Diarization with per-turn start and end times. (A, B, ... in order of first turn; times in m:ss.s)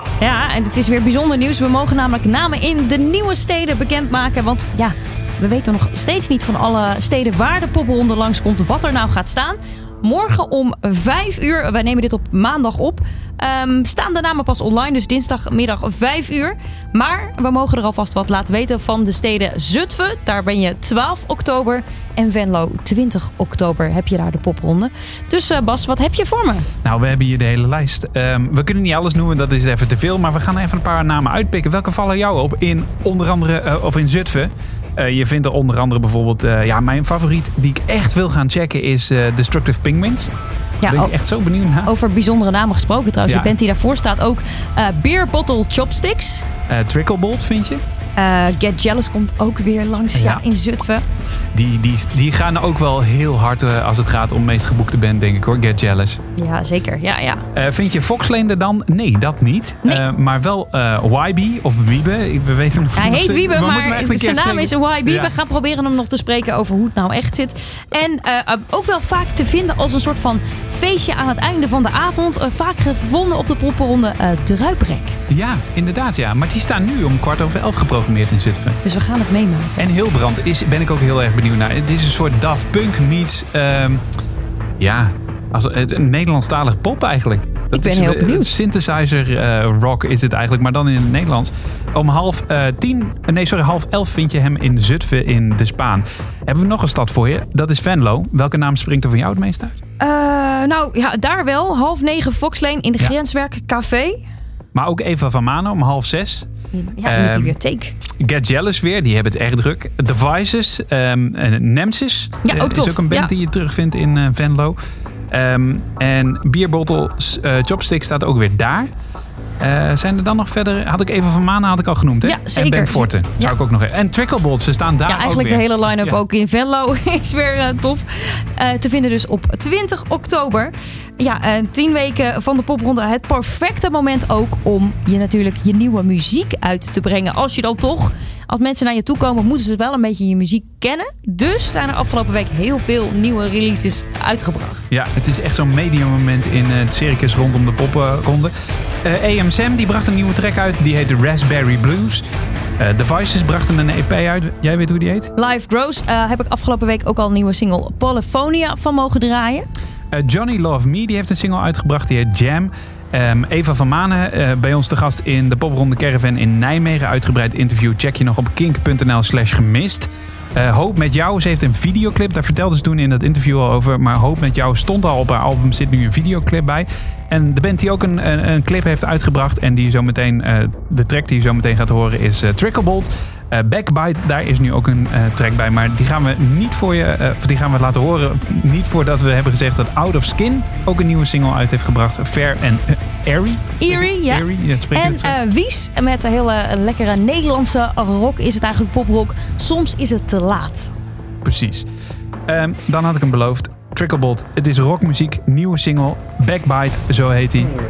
0:00.2-0:26.7 A
0:26.8-0:40.3 B
0:40.8-0:41.1 A
0:40.8-0:41.9 B
0:41.9-0:46.4 A
0:43.2-0:43.6 B
0:46.7-0:47.8 B
0:48.2-0:51.0 A
0:50.2-0:50.4 B
0:51.5-0:56.2 B
0:56.4-0:57.4 A
0:57.5-1:05.4 B
1:03.0-1:15.2 A
1:15.3-1:18.8 B
1:18.8-1:19.7 A
1:19.8-1:24.0 B
1:24.8-1:39.8 B
1:27.7-1:28.5 A
1:40.0-1:44.2 A
1:44.7-1:46.5 B
1:46.7-1:48.0 A
1:47.0-1:47.6 B
1:48.2-1:54.8 B
1:52.4-1:53.3 A
1:55.3-1:58.9 B
1:59.6-2:06.2 B
2:02.2-2:03.6 A
2:05.1-2:24.9 A
2:24.9-2:28.5 B
2:29.0-2:32.2 B
2:32.8-2:35.3 B
2:35.4-2:39.7 A
2:40.1-3:15.4 B
3:13.8-3:20.9 A
3:21.4-3:21.9 B
3:22.5-3:27.8 B